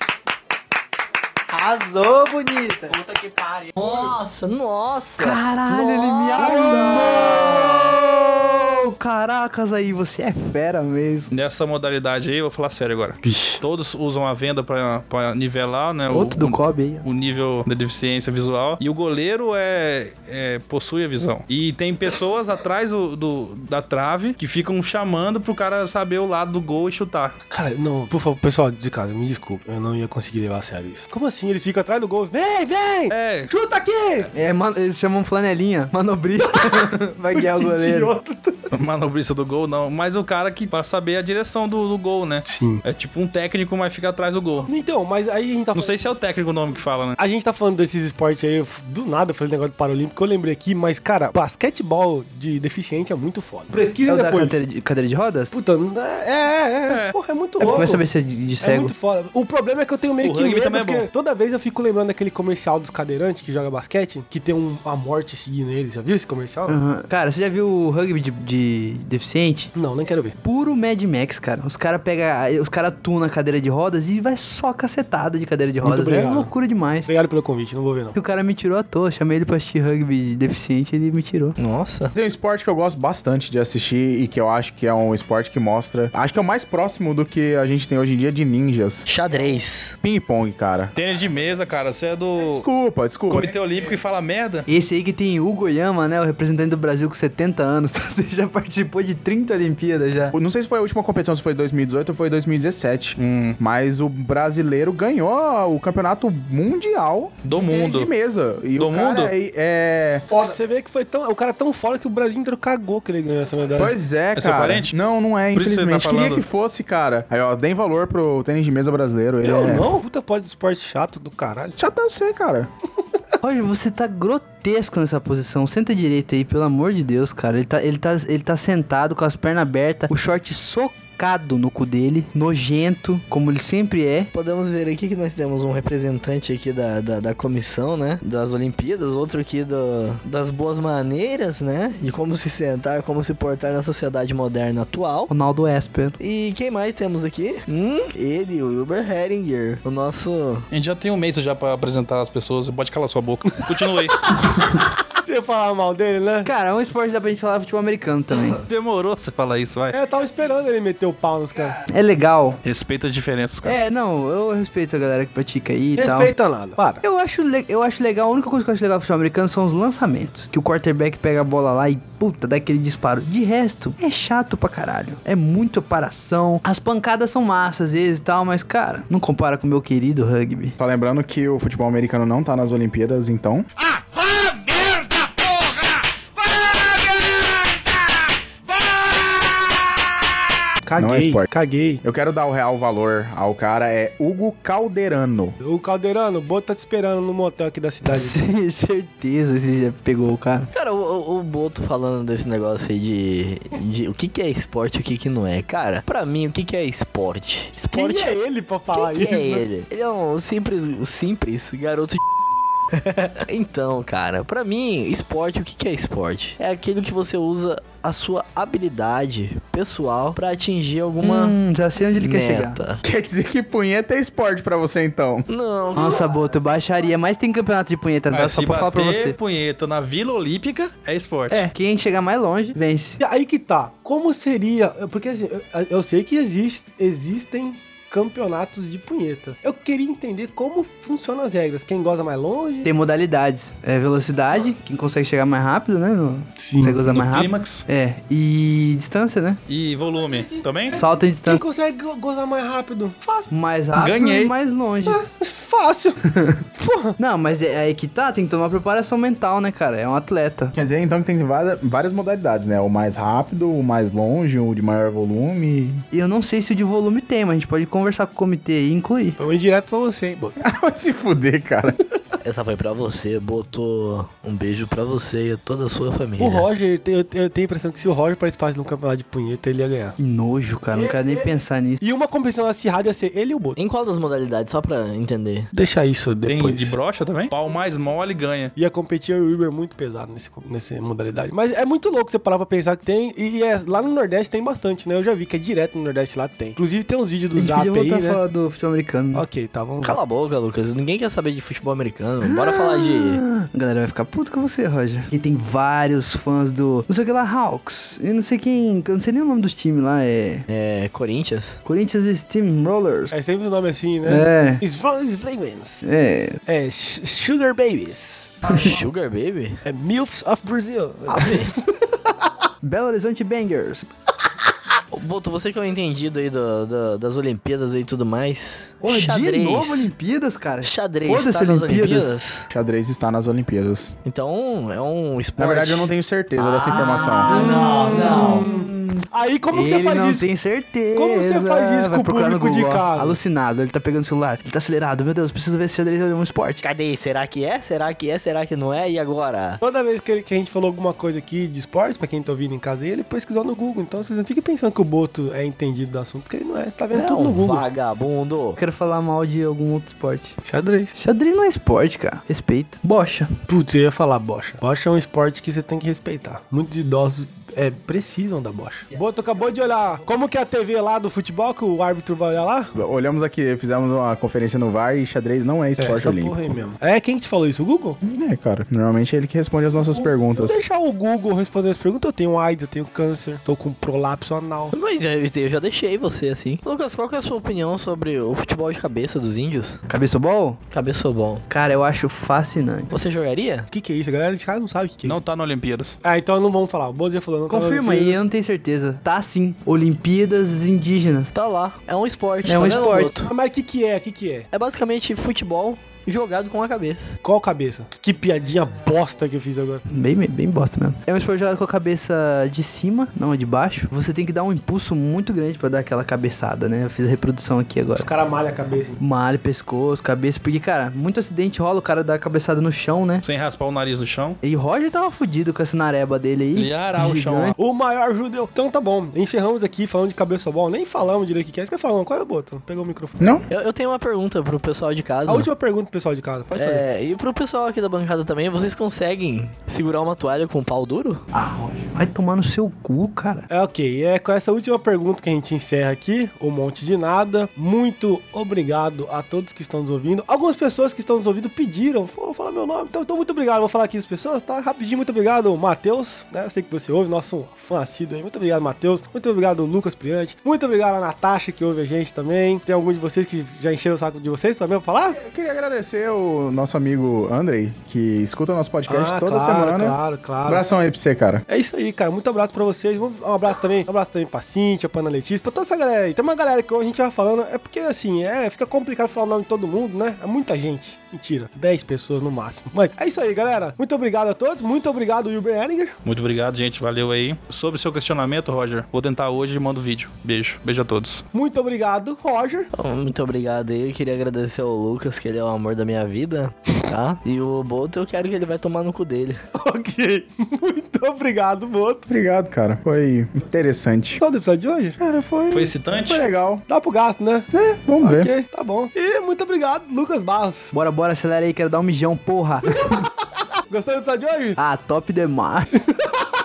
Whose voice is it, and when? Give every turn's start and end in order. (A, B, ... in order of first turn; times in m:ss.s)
0:01.7-0:02.9 A
0:03.1-0:03.6 B
0:03.7-0:08.0 C
0:05.2-0:11.3 A
0:11.3-0:27.4 D
0:13.2-0:13.6 E
0:16.1-0:17.0 A
0:27.5-0:34.3 E
0:33.1-0:33.5 D
0:34.3-0:38.1 A
0:36.6-0:36.8 E
0:37.3-0:38.7 E
0:38.7-0:44.7 D
0:42.5-0:42.8 E
0:44.6-0:46.0 E
0:45.7-0:47.2 D
0:47.2-0:54.6 E
0:54.0-0:55.5 A
0:55.5-0:58.0 E
0:56.9-0:57.1 D
0:57.6-0:58.9 A
0:58.6-1:06.8 E
1:00.2-1:01.0 D
1:06.7-1:09.7 A
1:09.7-1:10.4 E
1:10.4-1:17.1 A
1:15.8-1:16.5 E
1:17.0-1:18.2 E
1:18.2-1:21.6 A
1:21.6-1:22.1 C
1:22.1-1:29.1 F
1:29.0-1:30.0 C
1:30.0-1:30.9 F
1:30.9-1:32.7 D
1:32.4-1:33.5 F
1:33.3-1:34.6 D
1:34.7-1:40.4 A
1:40.3-1:50.4 F
1:43.2-1:43.6 D
1:47.4-1:48.1 D
1:48.8-1:49.3 D
1:50.3-1:53.9 E
1:53.8-2:00.0 F
1:54.3-1:54.9 D
1:55.5-1:56.4 D
1:59.4-2:01.8 E
2:01.8-2:02.7 F
2:03.4-2:14.3 A
2:14.3-2:25.3 C
2:25.3-2:26.2 A
2:26.2-2:30.6 C
2:30.7-2:34.2 D
2:35.2-2:36.5 E
2:36.4-2:38.6 A
2:38.5-2:39.9 D
2:39.9-2:41.8 E
2:41.9-2:42.6 A
2:42.6-2:43.8 D
2:43.6-2:46.3 A
2:46.0-2:47.0 E
2:47.0-3:00.8 A
3:00.8-3:03.7 F
3:03.8-3:10.4 B
3:10.8-3:12.0 E
3:11.0-3:11.5 F
3:12.0-3:15.6 F
3:15.6-3:18.4 E
3:18.1-3:20.7 A
3:20.7-3:28.3 C
3:27.9-3:29.7 E
3:28.9-3:32.2 C
3:33.4-3:41.6 C
3:41.2-3:42.8 A
3:42.1-3:43.0 C
3:43.0-3:45.5 F
3:45.5-3:46.3 C
3:45.9-3:49.4 A
3:48.3-3:51.7 D
3:51.5-3:53.2 A
3:53.2-4:02.9 E
4:02.8-4:09.6 A
4:06.6-4:07.0 E
4:07.0-4:07.8 D
4:09.7-4:11.0 D
4:10.2-4:13.5 E
4:10.9-4:11.6 A
4:13.5-4:15.2 A
4:13.9-4:14.5 D
4:15.0-4:16.2 E
4:16.2-4:16.6 A
4:16.7-4:17.2 E
4:17.2-4:20.7 A
4:20.7-4:26.0 F
4:26.1-4:29.4 A
4:29.4-4:30.6 E
4:30.6-4:32.0 F
4:32.4-4:36.7 C
4:36.4-4:40.2 E
4:40.2-4:42.0 A
4:42.0-4:43.8 E
4:43.8-4:45.7 C
4:45.7-4:46.9 E
4:46.4-4:48.7 D
4:48.8-4:58.4 E
4:57.5-4:59.4 A
4:59.3-5:00.2 E
5:00.0-5:03.4 C
5:02.4-5:10.6 A
5:10.7-5:11.8 C
5:11.8-5:13.3 A
5:13.3-5:16.0 E
5:14.2-5:14.8 A
5:16.0-5:16.6 A
5:16.6-5:18.8 E
5:18.6-5:19.8 C
5:19.8-5:22.4 E
5:21.4-5:21.7 C
5:22.8-5:24.1 A
5:25.1-5:30.1 C
5:29.0-5:32.4 A
5:30.8-5:32.7 C
5:32.7-5:34.1 F
5:34.2-5:38.7 C
5:35.6-5:37.5 F
5:37.5-5:39.2 A
5:37.5-5:40.5 E
5:39.7-5:46.8 A
5:41.1-5:43.4 E
5:46.8-5:49.8 C
5:49.8-5:57.8 E
5:57.1-5:58.8 C
5:58.8-6:00.6 A
6:00.6-6:01.1 E
6:01.1-6:03.5 A
6:03.7-6:12.9 E
6:13.0-6:16.6 F
6:16.0-6:18.2 E
6:18.2-6:20.8 F
6:20.5-6:25.0 E
6:24.9-6:30.0 C
6:30.1-6:30.8 A
6:30.9-6:31.6 C
6:31.7-6:33.1 A
6:33.1-6:33.9 C
6:33.9-6:35.4 E
6:35.2-6:36.2 D
6:36.2-6:38.4 E
6:37.7-6:41.5 A
6:41.5-6:43.4 C
6:42.6-6:43.5 A
6:43.4-6:44.7 E
6:44.7-6:47.4 C
6:47.4-6:50.0 E
6:50.1-6:58.3 A
6:58.1-6:59.2 E
6:59.2-7:03.4 A
7:03.4-7:04.6 D
7:04.6-7:07.8 A
7:06.7-7:07.8 D
7:07.8-7:13.4 E
7:13.4-7:13.6 F
7:13.7-7:15.7 C
7:15.4-7:17.0 E
7:16.7-7:21.4 C
7:21.6-7:23.7 A
7:23.7-7:45.4 E
7:45.4-7:51.6 F
7:49.1-7:50.9 E
7:51.7-8:06.1 E
8:06.2-8:11.4 D
8:11.5-8:12.9 E
8:12.9-8:19.6 C
8:19.7-8:22.3 E
8:22.3-8:24.4 F
8:24.4-8:25.2 E
8:25.2-8:26.8 F
8:25.7-8:26.5 D
8:26.9-8:27.7 E
8:27.7-8:28.5 F
8:28.2-8:30.9 E
8:30.9-8:33.1 A
8:33.9-8:34.8 E
8:34.8-8:36.0 A